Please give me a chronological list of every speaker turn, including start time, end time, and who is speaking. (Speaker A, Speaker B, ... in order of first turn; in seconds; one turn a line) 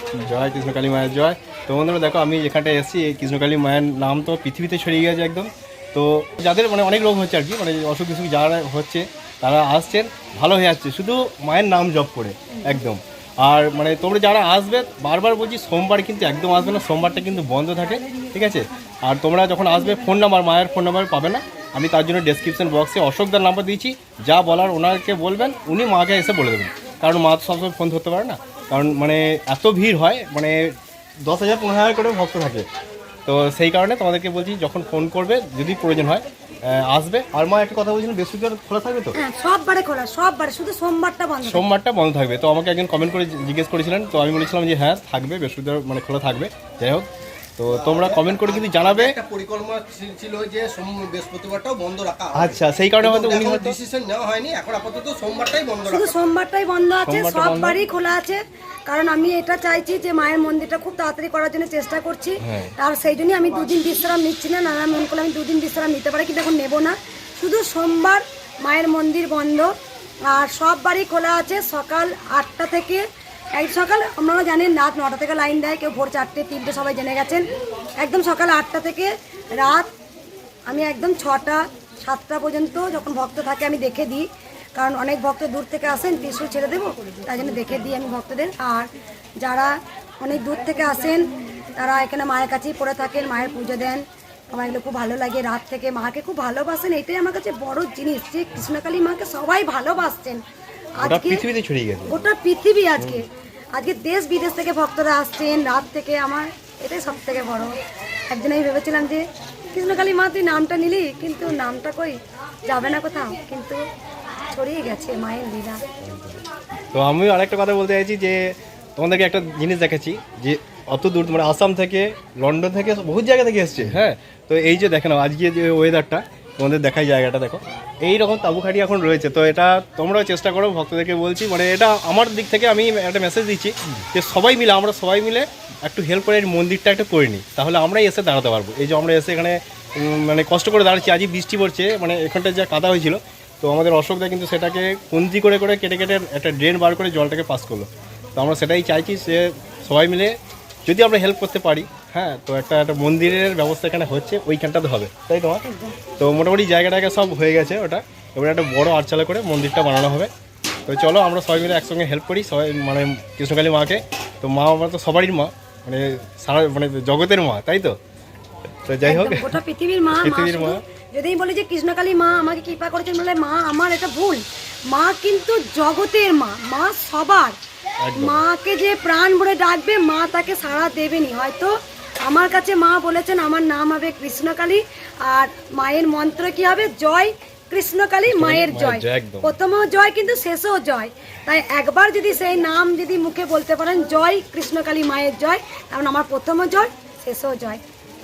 Speaker A: 0.1-32.7
Speaker A: 33.3-39.2
Speaker B: 39.2-41.7
Speaker A: 41.4-49.2
Speaker C: 47.9-56.1
Speaker A: 52.3-53.8
Speaker B: 55.9-69.7
Speaker A: 57.0-57.8
Speaker A: 62.4-62.7
Speaker B: 70.3-77.5
Speaker B: 78.0-79.9
Speaker B: 80.7-100.4
Speaker B: 101.0-101.5
Speaker A: 101.0-102.2
Speaker B: 102.1-107.8
Speaker A: 103.0-103.2
Speaker B: 108.3-113.8
Speaker B: 114.5-115.8
Speaker A: 116.0-155.6
Speaker A: 156.2-160.3
Speaker A: 160.9-168.0
Speaker A: 168.9-169.5
Speaker B: 169.0-177.6
Speaker A: 170.2-170.8
Speaker A: 178.0-178.4
Speaker B: 178.2-197.8
Speaker A: 188.3-189.5